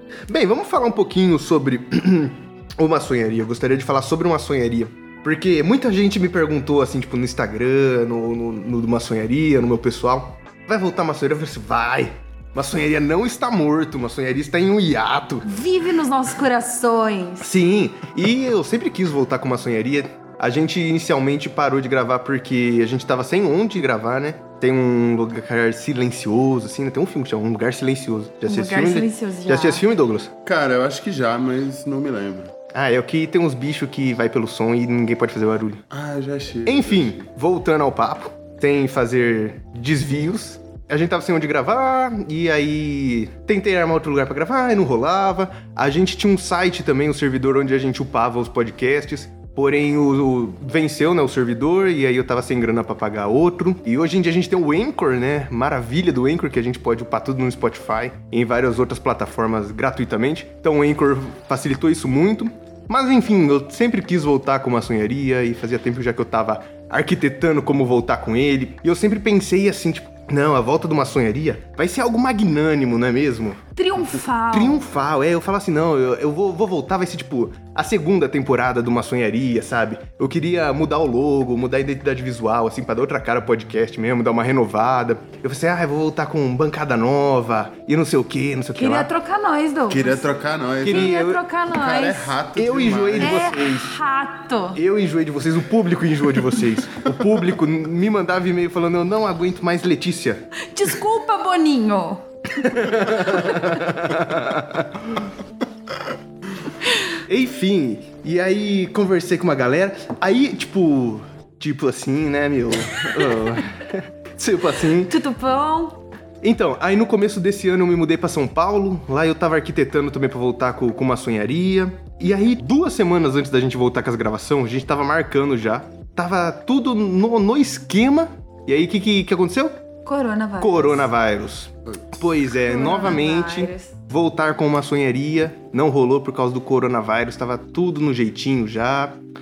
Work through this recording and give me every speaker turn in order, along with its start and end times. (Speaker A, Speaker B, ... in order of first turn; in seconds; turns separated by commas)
Speaker A: 0.3-15.4, Speaker B: 15.4-17.5, Speaker A: 17.4-30.3, Speaker B: 28.5-29.9, Speaker C: 30.4-32.5, Speaker A: 32.7-35.8, Speaker C: 35.9-37.2, Speaker A: 36.6-73.6, Speaker B: 73.8-74.8, Speaker A: 74.5-89.1, Speaker B: 88.7-90.3, Speaker C: 89.9-91.2, Speaker A: 90.8-91.4, Speaker B: 90.8-92.4, Speaker C: 91.7-93.4, Speaker A: 92.5-93.9, Speaker B: 93.2-94.8, Speaker A: 94.7-100.4, Speaker B: 100.7-103.7, Speaker A: 102.6-105.3, Speaker A: 107.3-115.1, Speaker B: 115.1-116.0, Speaker A: 116.4-129.7, Speaker B: 130.1-131.1, Speaker A: 130.6-139.2, Speaker B: 132.6-133.9